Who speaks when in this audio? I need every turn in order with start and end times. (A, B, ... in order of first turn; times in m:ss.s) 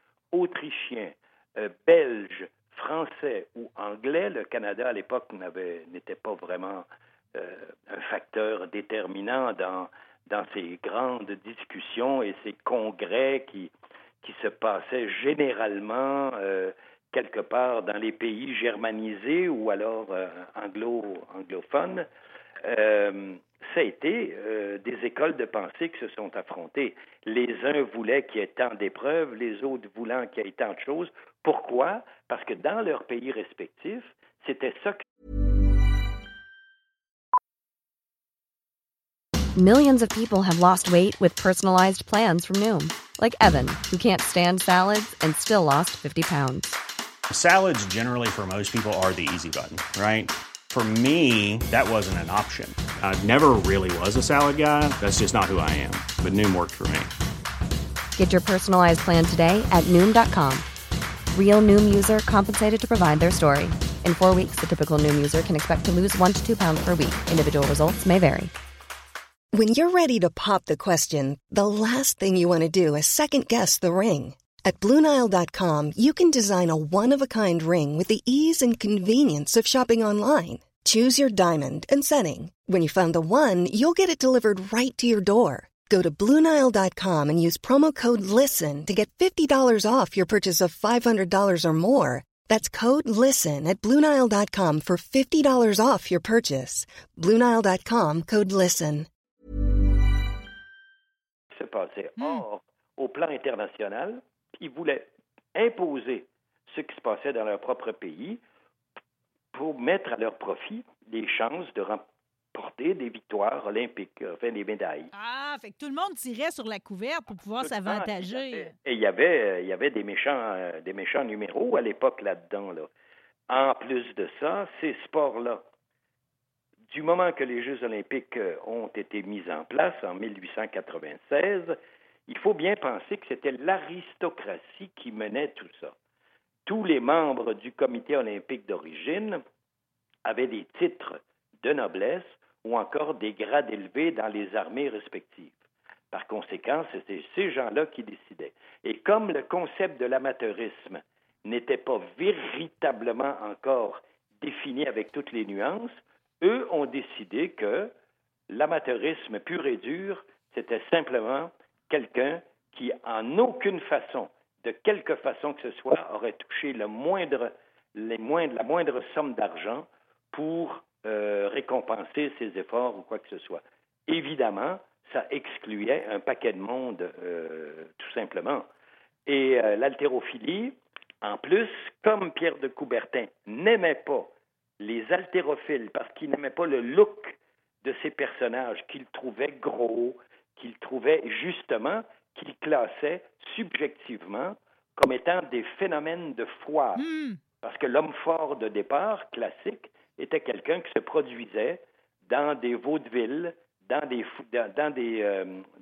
0:00.3-0:22.1 A
0:22.6-0:35.0 A
0:39.6-0:46.8 B
0:47.3-0:57.1 C
0:58.2-1:00.7 B
1:01.3-1:08.5 B
1:09.5-1:39.1 D
1:41.5-1:48.4 A
1:42.2-1:42.4 E
1:49.5-1:55.1 A
1:55.1-1:58.7 E
1:57.6-2:02.9 A
2:03.5-2:05.6 A
2:06.9-2:11.8 A
2:12.3-2:15.9 A
2:16.7-2:19.4 A
2:20.2-2:25.6 A
2:26.1-2:37.9 A
2:38.5-2:58.7 A
2:59.3-3:17.0 A
3:17.0-3:17.4 E
3:17.6-3:25.7 A